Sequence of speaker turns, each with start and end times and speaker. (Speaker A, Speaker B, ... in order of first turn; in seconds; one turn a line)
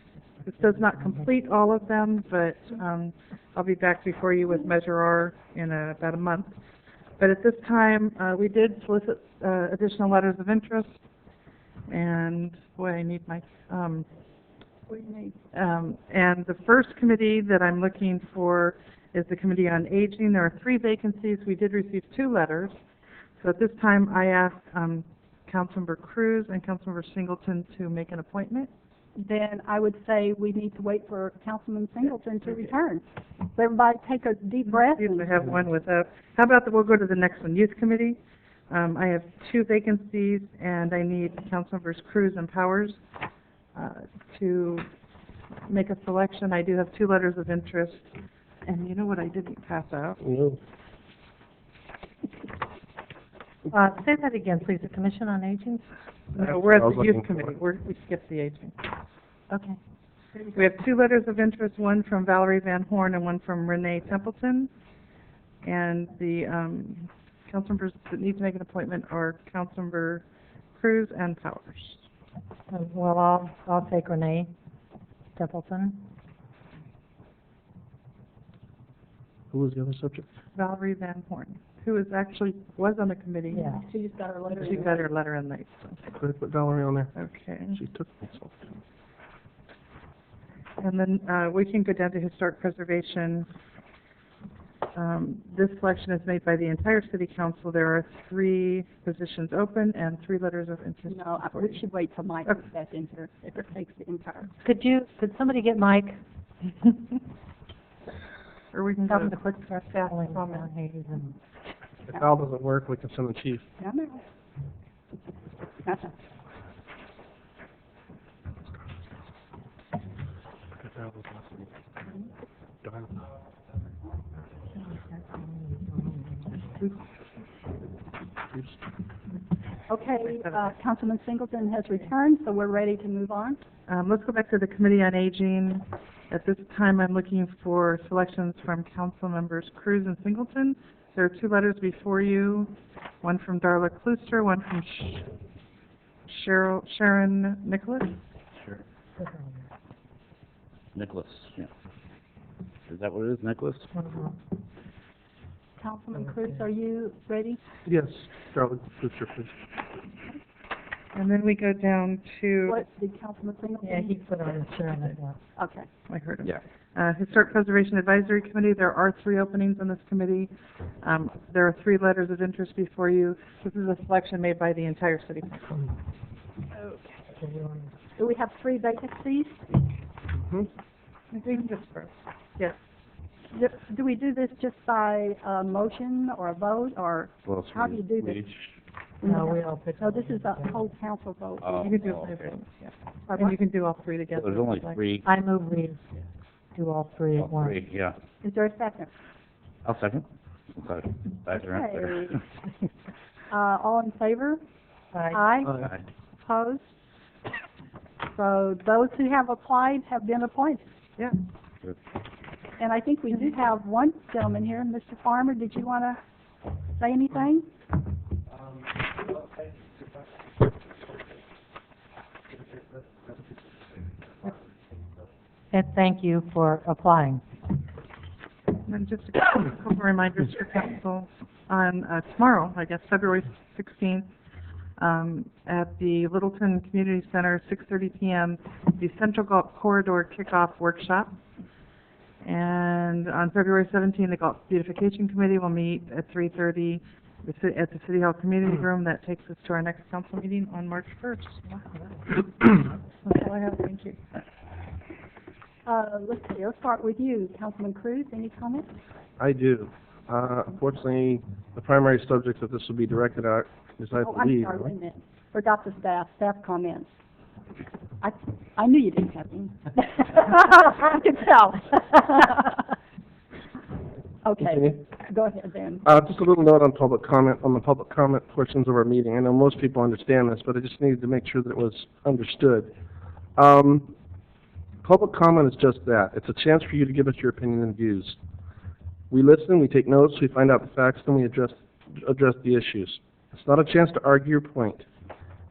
Speaker A: 0.5-6.5
Speaker A: 7.2-11.0
Speaker A: 11.9-14.1
Speaker B: 14.9-15.4
Speaker A: 15.5-22.8
Speaker A: 23.4-28.7
Speaker B: 29.2-33.0
Speaker B: 33.5-35.6
Speaker A: 34.6-38.2
Speaker A: 38.7-43.0
Speaker A: 43.7-44.9
Speaker A: 45.7-50.2
Speaker C: 50.2-50.6
Speaker D: 53.7-55.9
Speaker A: 56.3-58.8
Speaker C: 56.4-57.5
Speaker D: 59.5-59.8
Speaker A: 60.5-64.7
Speaker A: 65.6-70.2
Speaker A: 70.8-72.0
Speaker D: 72.7-74.5
Speaker D: 75.3-76.0
Speaker C: 79.5-80.2
Speaker A: 80.5-83.8
Speaker D: 83.5-83.8
Speaker B: 83.6-85.0
Speaker A: 84.5-86.0
Speaker C: 86.1-87.2
Speaker A: 87.2-87.8
Speaker C: 87.7-88.7
Speaker A: 90.8-93.5
Speaker A: 94.9-101.8
Speaker B: 101.1-104.5
Speaker D: 104.6-106.2
Speaker A: 108.7-110.7
Speaker D: 109.0-111.4
Speaker C: 112.1-113.6
Speaker B: 113.8-114.2
Speaker B: 115.8-116.1
Speaker C: 120.8-121.6
Speaker C: 122.8-123.1
Speaker D: 124.8-126.7
Speaker C: 128.5-128.8
Speaker B: 129.9-133.6
Speaker A: 130.2-130.7
Speaker A: 133.9-145.3
Speaker A: 146.3-148.1
Speaker D: 149.2-149.6
Speaker E: 150.9-151.7
Speaker E: 152.9-153.9
Speaker D: 153.9-154.3
Speaker B: 155.8-157.6
Speaker D: 156.2-156.5
Speaker C: 157.8-159.5
Speaker A: 161.1-162.8
Speaker B: 162.7-164.5
Speaker D: 163.8-165.4
Speaker B: 165.6-165.9
Speaker A: 166.1-170.5
Speaker A: 171.0-175.8
Speaker D: 177.3-177.9
Speaker B: 178.2-179.8
Speaker C: 180.4-180.7
Speaker A: 181.3-182.7
Speaker B: 183.5-188.4
Speaker E: 187.4-188.7
Speaker B: 189.2-191.7
Speaker D: 189.2-190.7
Speaker E: 191.6-192.5
Speaker A: 191.8-195.0
Speaker E: 194.3-195.2
Speaker D: 195.2-196.0
Speaker D: 196.7-197.8
Speaker E: 197.3-198.2
Speaker B: 198.4-199.1
Speaker E: 199.8-202.4
Speaker B: 201.5-202.4
Speaker B: 203.5-204.6
Speaker D: 205.1-205.4
Speaker B: 205.3-206.9
Speaker B: 208.3-210.8
Speaker B: 212.8-216.2
Speaker B: 217.0-217.7
Speaker D: 225.7-227.4
Speaker A: 228.8-234.3
Speaker A: 235.0-241.3
Speaker A: 242.4-251.8
Speaker A: 253.2-254.2
Speaker B: 255.8-258.9
Speaker C: 259.4-264.9
Speaker B: 264.2-267.1
Speaker B: 268.2-272.8
Speaker B: 274.4-276.1
Speaker C: 274.6-275.0
Speaker C: 276.0-282.9
Speaker C: 283.6-284.1
Speaker C: 285.0-288.4
Speaker C: 289.3-295.0